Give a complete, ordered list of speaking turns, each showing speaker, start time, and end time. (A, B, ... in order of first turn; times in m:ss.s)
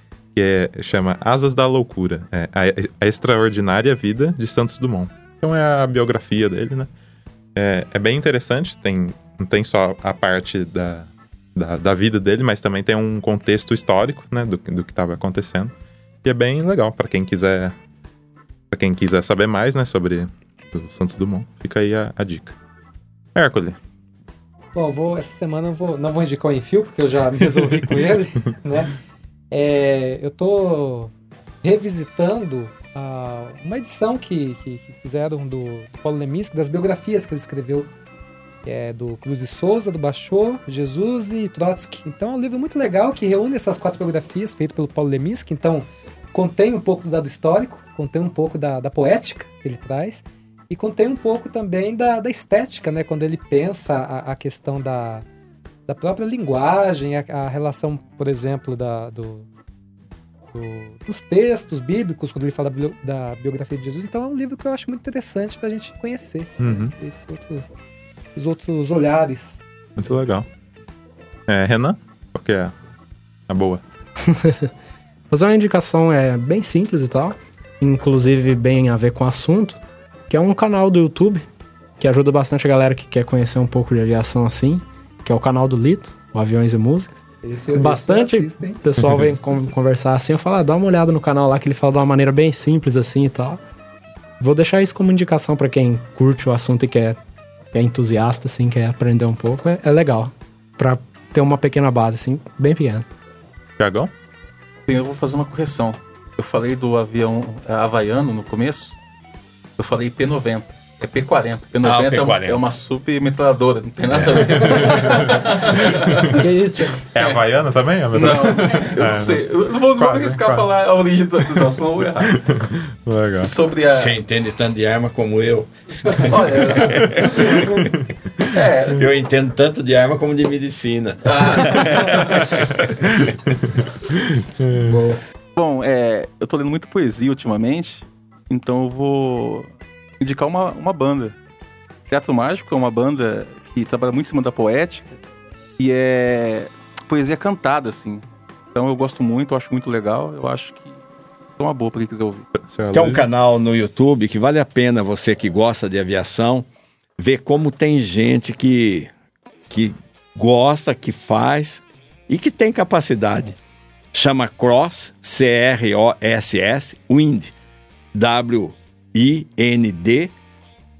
0:00.4-0:06.9 A
0:07.6-0:15.7 A
0:16.2-0:17.8 A
0:18.7-0:22.6 A
0:23.4-0:23.8 A
0:24.8-0:28.9 B
0:29.5-0:31.1 B
0:31.6-0:37.9 B
0:38.6-0:55.2 B
0:55.9-0:59.5 B
1:00.5-1:07.6 B
1:06.6-1:06.9 A
1:08.4-1:09.6 B
1:10.0-1:10.5 A
1:11.5-1:12.7 A
1:13.5-1:13.8 A
1:14.2-1:14.7 C
1:15.3-1:21.5 C
1:22.0-1:33.6 C
1:27.4-1:28.8 B
1:34.4-1:37.2 C
1:37.7-1:43.0 C
1:43.8-1:44.1 A
1:44.9-1:49.0 D
1:49.8-1:56.5 D
1:51.8-1:52.7 E
1:54.1-1:54.7 E
1:54.6-1:55.5 A
1:56.3-1:57.1 C
1:57.1-2:00.7 A
1:57.2-1:57.4 D
1:58.1-2:02.4 D
2:02.2-2:03.5 A
2:03.4-2:04.2 D
2:03.9-2:07.9 E
2:06.1-2:09.1 D
2:08.9-2:13.2 E
2:11.3-2:12.5 D
2:14.3-2:14.8 A
2:14.9-2:21.4 D
2:22.1-2:25.2 D
2:25.8-2:31.0 D
2:31.6-2:32.5 D
2:32.6-2:33.3 A
2:32.9-2:36.7 E
2:37.2-2:39.1 E
2:39.7-2:43.6 E
2:44.1-2:47.5 E
2:48.1-2:50.3 E